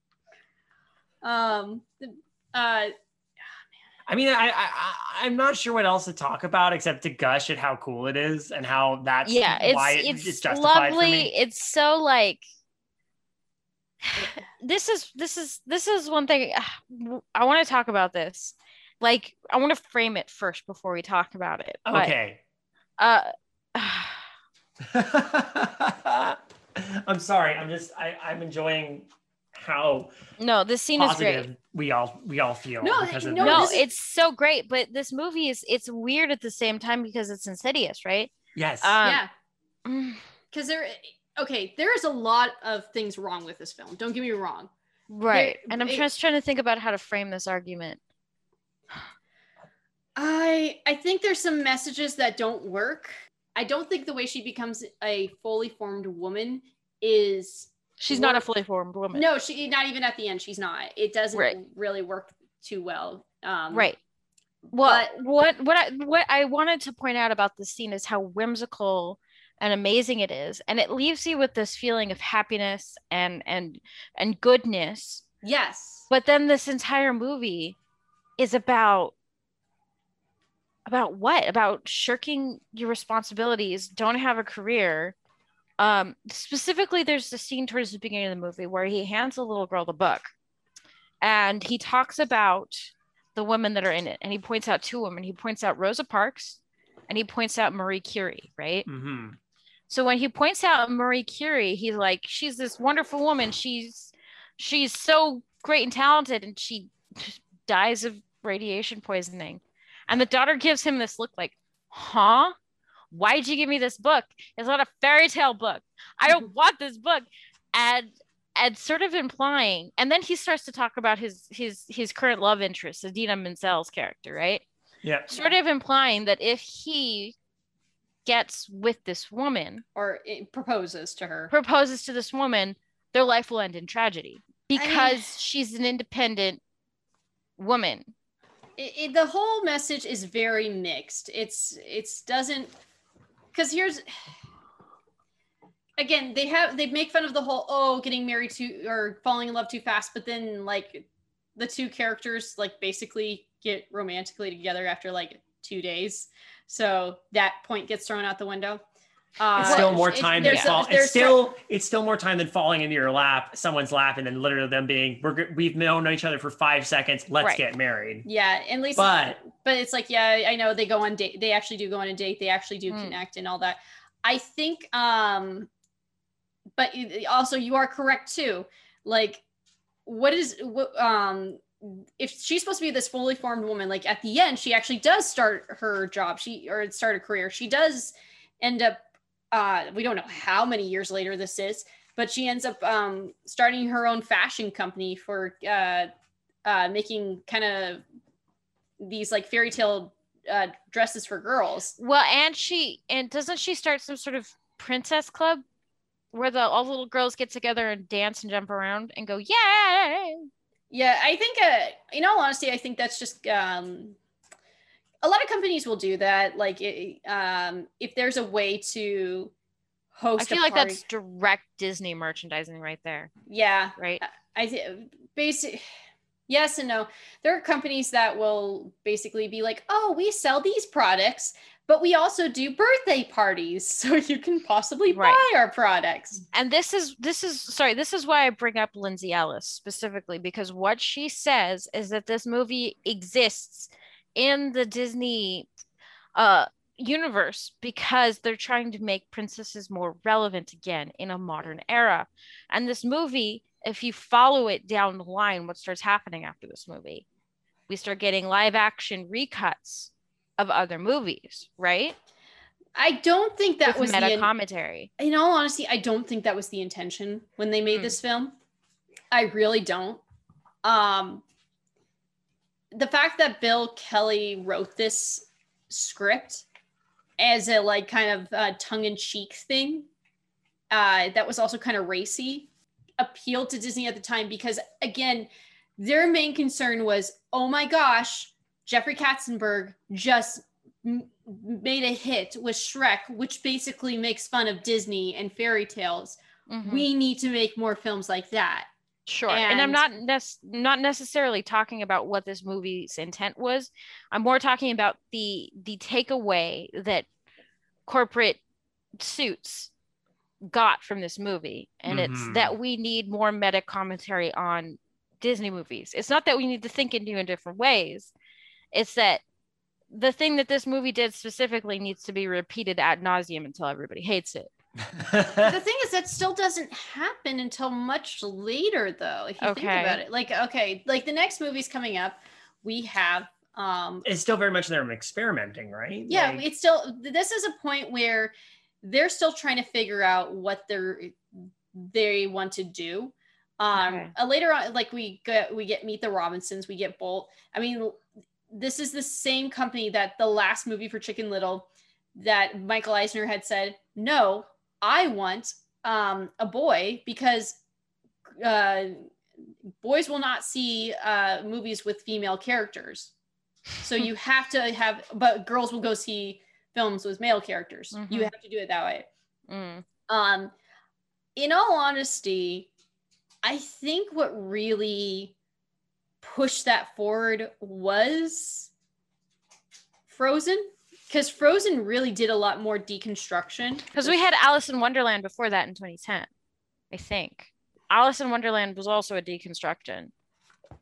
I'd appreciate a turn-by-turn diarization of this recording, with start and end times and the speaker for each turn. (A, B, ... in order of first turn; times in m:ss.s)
0:01.2-0:02.9 A
0:04.1-0:11.3 B
0:09.2-0:12.4 C
0:14.0-0:22.1 C
0:21.8-0:22.4 B
0:23.0-0:24.2 C
0:24.8-0:30.1 B
0:30.4-0:31.5 C
0:31.0-0:33.8 B
0:32.8-0:33.8 A
0:33.4-0:39.2 C
0:38.5-0:39.0 B
0:39.0-0:39.3 A
0:39.8-0:40.2 C
0:40.5-0:44.7 A
0:45.1-0:48.0 C
0:45.3-0:46.0 A
0:50.2-0:58.4 A
0:58.0-0:59.2 C
0:59.1-1:03.9 A
1:03.7-1:04.0 C
1:04.7-1:15.2 C
1:04.8-1:05.1 A
1:15.4-1:16.1 A
1:16.1-1:17.8 C
1:18.4-1:19.1 C
1:20.8-1:25.1 C
1:25.8-1:30.3 C
1:31.2-1:38.9 C
1:38.8-1:39.4 B
1:39.9-1:52.5 C
1:53.1-2:04.6 C
2:05.0-2:05.3 B
2:05.3-2:07.3 C
2:08.2-2:09.8 C
2:10.0-2:11.5 A
2:11.5-2:16.6 C
2:14.7-2:15.3 A
2:17.6-2:18.1 C
2:18.8-2:22.7 A
2:23.5-2:24.0 A
2:26.0-2:31.0 A
2:31.6-2:38.8 A
2:39.4-2:41.4 A
2:39.6-2:48.2 B
2:39.6-2:40.7 C
2:48.2-2:55.7 A
2:49.0-2:49.4 B
2:52.9-2:53.2 C
2:56.8-2:59.4 A
3:00.0-3:09.0 A
3:09.5-3:16.1 A
3:16.6-3:18.0 A
3:19.0-3:21.9 A
3:22.0-3:25.6 C
3:26.3-3:30.5 C
3:30.9-3:34.2 A
3:35.2-3:39.5 A
3:40.1-3:41.0 A
3:40.4-3:43.3 C
3:43.5-3:45.8 A
3:44.0-3:44.2 C
3:46.5-3:56.4 A
3:55.1-3:55.4 C
3:56.5-4:05.7 C
4:06.4-4:17.2 C
4:17.9-4:22.2 C
4:23.0-4:24.5 A
4:23.8-4:25.1 C
4:25.2-4:28.5 A
4:27.9-4:28.1 C
4:29.3-4:30.2 A
4:30.8-4:31.4 A
4:32.9-4:36.6 A
4:37.4-4:40.1 A
4:40.9-4:42.7 A
4:43.2-4:58.9 A
4:56.7-4:57.1 C
4:59.3-5:07.2 C
4:59.5-5:00.0 A
5:08.0-5:08.6 C
5:09.2-5:09.9 C
5:10.6-5:18.3 C
5:12.1-5:12.7 B
5:18.9-5:19.4 C
5:20.1-5:24.7 C
5:25.1-5:25.7 B
5:25.6-5:34.2 A
5:29.6-5:30.2 C
5:34.2-5:36.6 B
5:36.3-5:41.4 A
5:41.9-5:57.8 A
5:43.9-5:44.3 C
5:58.5-5:59.2 A
6:00.0-6:03.3 A
6:04.0-6:09.2 A
6:08.1-6:08.5 C
6:09.7-6:10.0 C
6:10.3-6:10.7 A
6:11.6-6:12.9 A
6:13.6-6:15.5 A
6:16.4-6:18.9 A
6:20.3-6:24.4 A
6:24.1-6:26.5 C
6:27.1-6:30.3 C